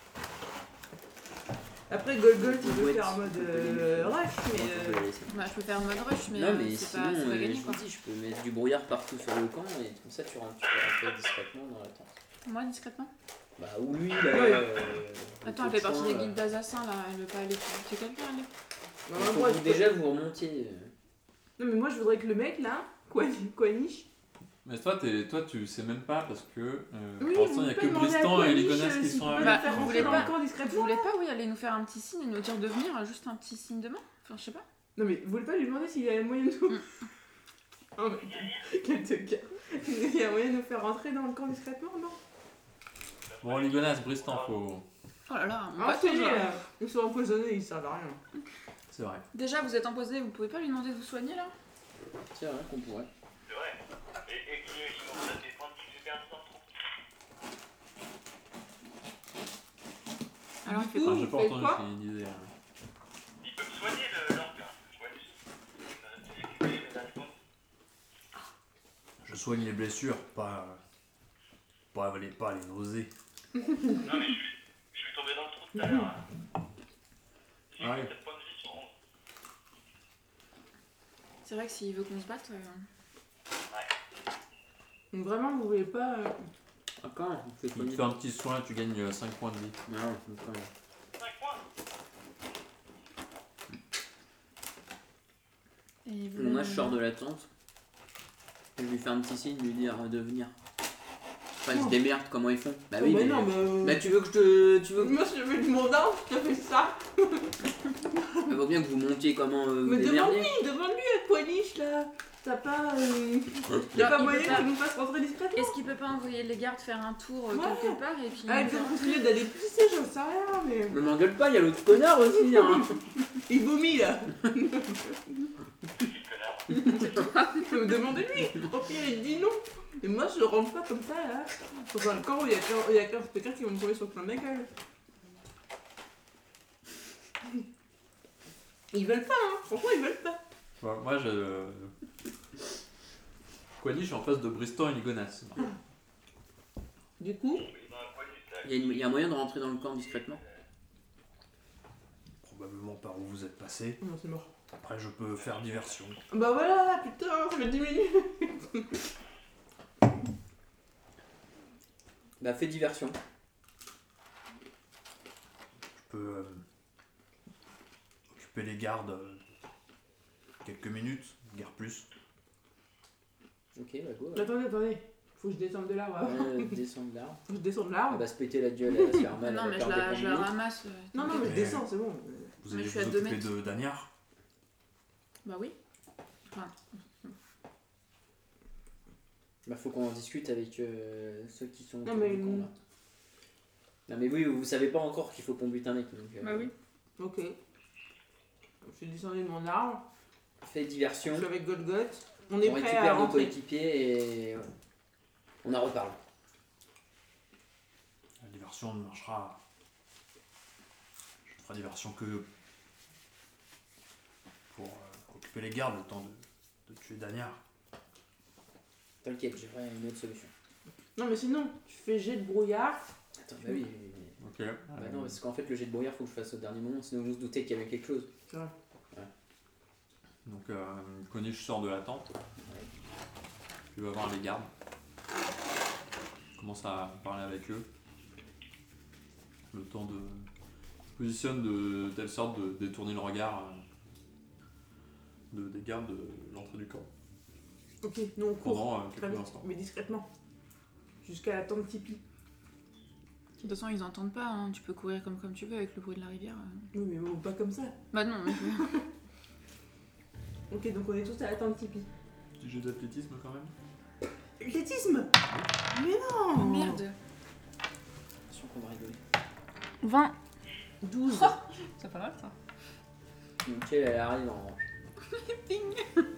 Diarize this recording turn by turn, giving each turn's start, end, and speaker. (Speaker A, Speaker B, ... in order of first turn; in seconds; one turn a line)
Speaker A: 1.9-5.0
Speaker B: 2.3-5.4
Speaker C: 5.3-7.8
Speaker B: 6.3-12.1
Speaker C: 12.4-13.1
Speaker B: 13.6-16.4
Speaker A: 14.3-14.7
Speaker C: 15.4-18.5
Speaker A: 19.1-19.9
Speaker B: 19.1-20.9
Speaker A: 21.6-24.1
Speaker D: 24.6-30.3
Speaker A: 27.2-31.1
Speaker C: 29.3-34.6
Speaker A: 35.0-36.8
Speaker A: 38.0-42.2
Speaker E: 43.2-44.5
Speaker D: 43.4-44.8
Speaker C: 45.3-46.6
Speaker A: 45.8-48.2
Speaker D: 48.9-49.2
Speaker C: 49.3-51.5
Speaker B: 52.2-53.1
Speaker E: 53.5-56.7
Speaker C: 60.6-61.2
Speaker A: 60.6-61.8
Speaker D: 61.0-62.5
Speaker E: 63.4-67.3
Speaker F: 69.2-70.8
Speaker F: 71.9-73.1
Speaker E: 74.0-76.2
Speaker A: 75.8-76.1
Speaker E: 77.7-78.9
Speaker D: 77.8-78.1
Speaker C: 81.4-82.8
Speaker A: 85.1-86.4
Speaker B: 87.0-88.1
Speaker D: 87.7-89.8
Speaker B: 89.9-90.7
Speaker E: 91.2-91.6
Speaker C: 96.0-97.0
Speaker B: 96.3-97.5
Speaker B: 98.8-100.5
Speaker B: 101.6-105.2
Speaker A: 101.7-102.0
Speaker A: 103.0-104.0
Speaker A: 105.0-108.5
Speaker B: 108.5-110.6
Speaker A: 109.8-115.8
Speaker C: 113.9-114.7
Speaker C: 115.5-119.3
Speaker A: 117.5-121.0
Speaker B: 120.9-123.0
Speaker A: 122.3-123.0
Speaker A: 123.5-125.2
Speaker E: 126.0-127.1
Speaker A: 126.7-134.7
Speaker A: 138.9-140.4
Speaker D: 140.8-141.9
Speaker D: 143.8-145.7
Speaker A: 147.2-147.7
Speaker E: 147.5-149.1
Speaker B: 148.6-150.4
Speaker F: 152.4-154.0
Speaker A: 154.0-154.5
Speaker F: 154.8-156.2
Speaker E: 155.4-156.1
Speaker A: 156.3-158.9
Speaker B: 162.4-163.2
Speaker F: 165.9-166.6
Speaker F: 168.3-169.4
Speaker F: 170.6-172.1
Speaker B: 173.7-174.5
Speaker A: 174.3-176.8
Speaker B: 176.2-177.4
Speaker A: 177.5-178.2
Speaker B: 178.1-180.5
Speaker C: 179.4-181.8
Speaker A: 181.1-182.6
Speaker F: 181.3-181.9
Speaker F: 182.6-184.1
Speaker C: 182.7-183.5
Speaker C: 185.4-185.8
Speaker C: 186.5-187.3
Speaker B: 189.6-192.7
Speaker A: 192.0-192.7
Speaker B: 194.1-196.7
Speaker C: 196.4-196.7
Speaker A: 197.2-197.6
Speaker A: 198.8-200.1
Speaker B: 200.6-201.5
Speaker A: 201.3-203.5
Speaker B: 202.6-204.7
Speaker B: 205.6-206.2
Speaker F: 208.4-209.6
Speaker F: 211.4-212.4
Speaker F: 214.7-217.6
Speaker B: 219.2-220.5
Speaker A: 221.2-223.0
Speaker B: 223.4-224.4
Speaker D: 224.4-225.4
Speaker B: 224.9-228.3
Speaker D: 230.4-232.3
Speaker B: 232.6-232.9
Speaker D: 233.9-234.7
Speaker D: 236.6-237.9
Speaker D: 239.7-240.5
Speaker D: 241.2-243.8
Speaker D: 245.5-247.1
Speaker A: 248.0-250.2
Speaker D: 248.6-249.7
Speaker A: 251.2-252.2
Speaker C: 253.6-256.9
Speaker A: 256.9-258.0
Speaker C: 258.1-258.9
Speaker A: 258.5-259.0
Speaker A: 260.7-262.1
Speaker D: 262.6-263.7
Speaker A: 264.6-265.4
Speaker A: 265.9-267.0
Speaker C: 266.5-267.1
Speaker B: 268.5-269.2
Speaker C: 270.0-270.3
Speaker A: 271.0-272.5
Speaker C: 271.3-272.5
Speaker B: 273.6-274.9
Speaker C: 275.4-276.0